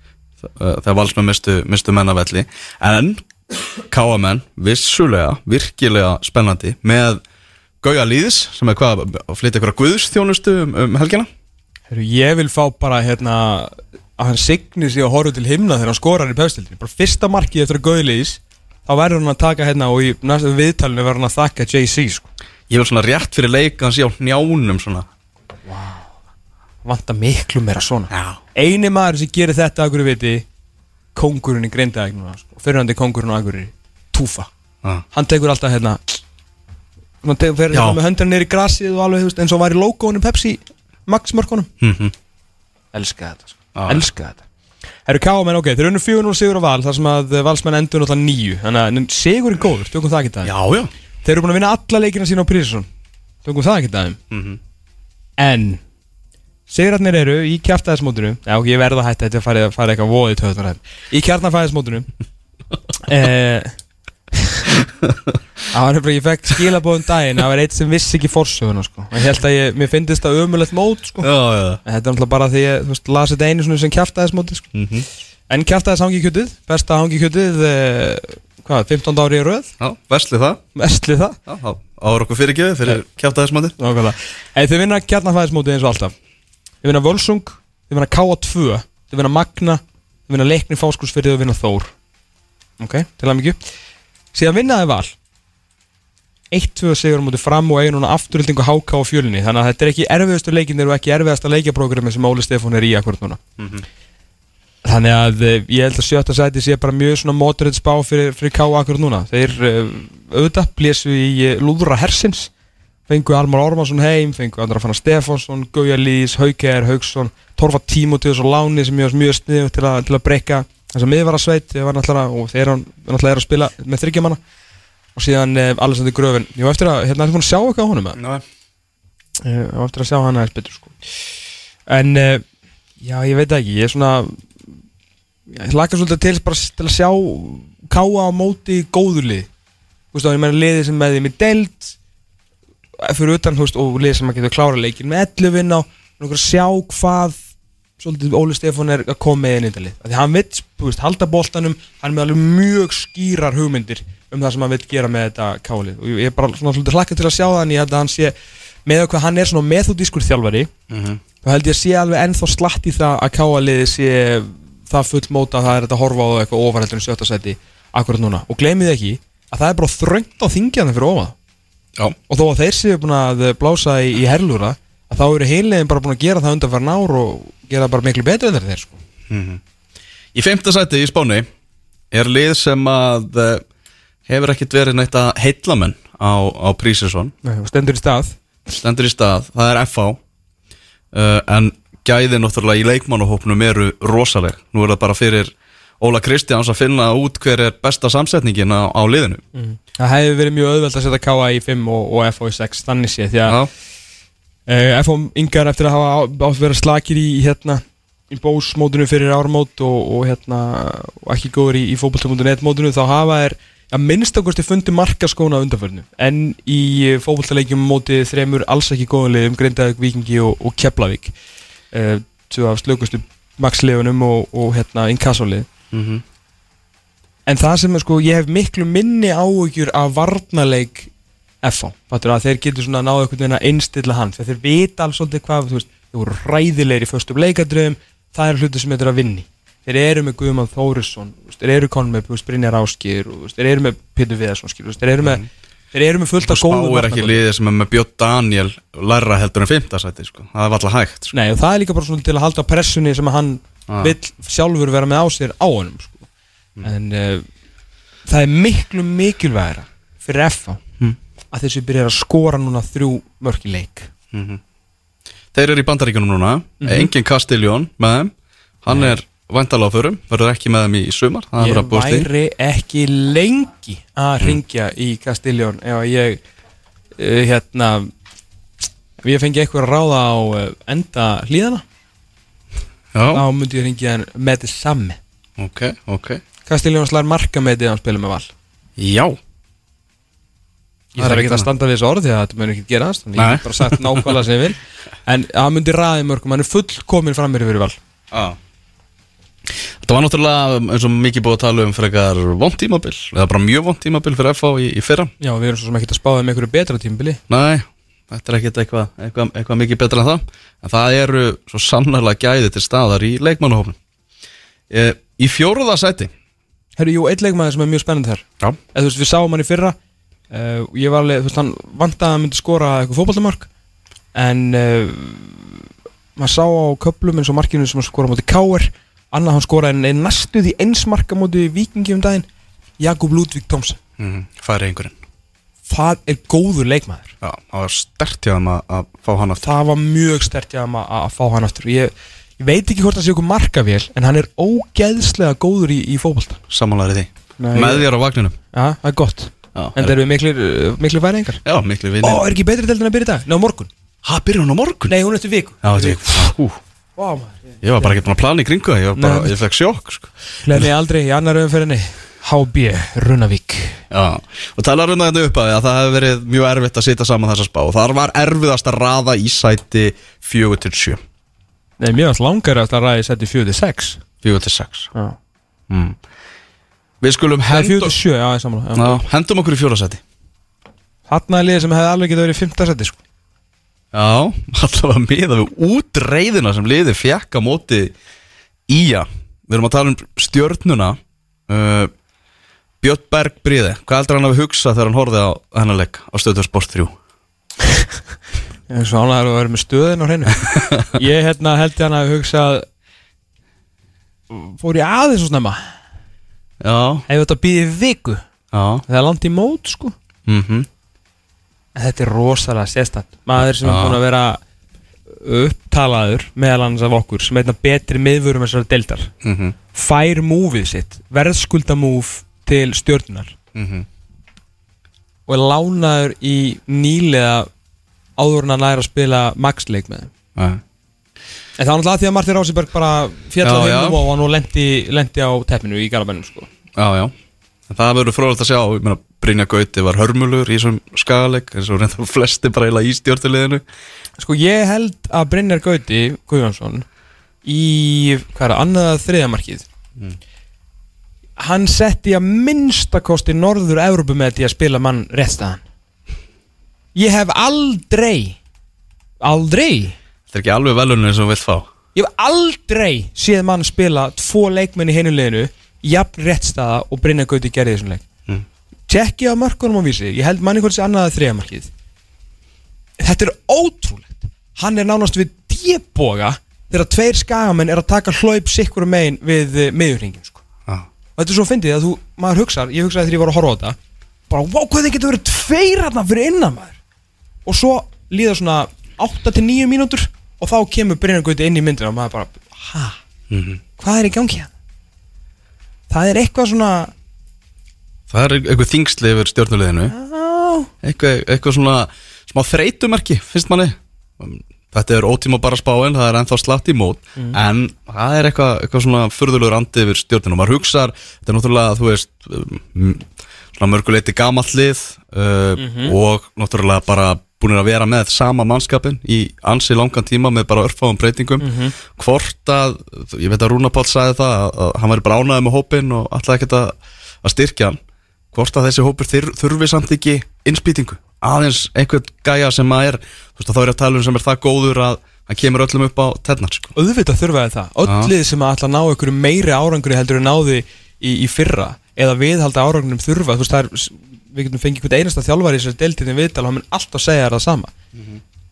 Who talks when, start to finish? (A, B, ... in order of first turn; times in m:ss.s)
0:00.4-0:03.2 A
0:03.9-0:07.2 A
0:07.8-0:11.3 A
0:11.9-0:22.3 B
0:22.7-0:25.1 A
0:25.7-0:26.1 B
0:26.8-0:30.4 B
0:28.1-0:28.4 A
0:31.1-0:34.5 B
0:35.1-0:36.2 B
0:37.2-0:41.7 B
0:37.7-0:38.0 A
0:41.8-0:42.1 A
0:42.9-0:44.4 B
0:43.8-0:44.0 A
0:45.1-0:50.5 B
0:50.4-0:50.9 A
0:51.2-0:52.9 B
0:53.4-0:54.2 B
0:54.3-0:54.6 A
0:55.4-0:55.8 B
0:56.7-1:02.1 B
1:03.0-1:03.8 B
1:04.3-1:04.8 B
1:05.0-1:05.3 A
1:05.7-1:11.3 B
1:11.2-1:11.8 A
1:11.8-1:14.7 B
1:14.7-1:15.1 A
1:15.5-1:19.7 B
1:19.8-1:20.6 A
1:20.8-1:21.4 B
1:21.5-1:23.8 A
1:23.8-1:26.1 B
1:26.8-1:31.9 B
1:32.8-1:33.6 B
1:34.3-1:35.1 B
1:36.5-1:43.4 B
1:43.6-1:43.8 A
1:44.8-1:52.5 B
1:53.1-2:04.4 B
2:05.2-2:08.2 B
2:08.2-2:08.4 A
2:09.4-2:11.0 B
2:11.9-2:12.4 B
2:13.0-2:14.4 B
2:15.5-2:19.5 B
2:20.1-2:22.0 B
2:23.0-2:27.4 B
2:28.0-2:38.3 B
2:38.9-2:40.7 B
2:40.9-2:41.2 A
2:41.4-2:51.4 B
2:52.3-2:59.0 B
2:59.3-2:59.6 A
3:00.3-3:01.5 A
3:02.1-3:03.6 A
3:04.3-3:07.3 A
3:07.4-3:08.4 B
3:08.8-3:10.2 A
3:11.1-3:19.4 A
3:19.5-3:23.6 B
3:24.7-3:41.3 B
3:41.9-3:45.7 B
3:45.9-3:46.2 A
3:47.4-3:51.1 B
3:51.6-4:07.4 B
4:06.4-4:11.3 A
4:11.3-4:16.3 B
4:13.9-4:14.1 A
4:16.8-4:17.4 B
4:18.3-4:20.8 B
4:21.5-4:24.1 B
4:24.3-4:24.6 A
4:25.5-4:32.3 A
4:26.8-4:27.1 B
4:28.9-4:29.1 B
4:31.6-4:36.4 B
4:37.2-4:38.1 B
4:39.2-4:41.8 B
4:43.1-4:43.4 A
4:43.3-4:45.2 B
4:45.6-4:46.4 A
4:46.6-4:48.5 B
4:49.0-4:49.4 A
4:51.1-4:58.0 B
4:51.2-4:51.7 A
4:53.4-4:54.4 A
4:58.3-4:58.6 A
5:00.0-5:05.3 A
5:05.4-5:07.4 B
5:07.5-5:14.0 A
5:14.9-5:16.3 A
5:17.0-5:20.0 B
5:20.5-5:23.7 B
5:24.3-5:25.8 B
5:26.4-5:32.4 B
5:33.0-5:34.0 B
5:34.2-5:35.2 A
5:35.9-5:37.4 B
5:37.4-5:39.6 A
5:39.6-5:46.6 B
5:46.7-5:48.6 A
5:47.6-5:48.1 B
5:48.7-5:51.6 B
5:49.8-5:50.1 A
5:51.6-5:52.4 A
5:52.2-5:53.9 B
5:54.2-5:55.1 A
5:55.1-5:56.6 B
5:55.8-5:56.8 A
5:57.2-5:58.2 B
5:57.8-6:00.9 A
5:59.2-5:59.6 B
6:00.6-6:04.0 B
6:04.1-6:11.2 A
6:12.0-6:14.2 B
6:14.4-6:15.1 A
6:15.9-6:16.2 A
6:17.2-6:18.1 A
6:17.7-6:19.2 B
6:18.9-6:20.2 A
6:21.3-6:23.2 B
6:24.1-6:28.1 A
6:28.9-6:32.1 A
6:33.0-6:37.1 A
6:38.9-6:42.9 B
6:40.7-6:41.1 A
6:44.5-6:45.8 B
6:46.8-6:47.2 A
6:47.3-6:48.4 B
6:48.7-6:49.0 A
6:49.1-6:50.1 B
6:50.4-6:50.9 A
6:52.0-6:54.6 B
6:53.8-6:54.2 A
6:55.3-6:59.3 B
6:59.4-6:59.8 A
6:59.9-7:03.6 B
7:03.8-7:04.1 A
7:05.5-7:07.7 B
7:08.4-7:10.3 B
7:10.6-7:10.8 A
7:11.8-7:16.7 B
7:13.6-7:14.2 A
7:17.0-7:17.3 A
7:17.9-7:23.8 A
7:24.4-7:27.1 B
7:27.6-7:29.9 B
7:31.6-7:35.8 B
7:37.1-7:38.6 B
7:39.4-7:40.2 B
7:40.5-7:41.9 A
7:42.1-7:48.2 B
7:49.1-7:51.9 B
7:53.2-8:00.6 B
8:01.4-8:04.0 B
8:04.5-8:07.0 B
8:07.7-8:13.2 B
8:13.5-8:13.8 A
8:14.0-8:14.7 B
8:16.1-8:17.1 B
8:18.3-8:20.1 A
8:20.1-8:20.9 B
8:21.0-8:48.0 A
8:35.8-8:36.2 B
8:41.6-8:42.0 B
8:48.5-8:56.9 A
8:57.0-9:07.9 B
8:58.0-8:58.3 A
9:08.1-9:08.4 A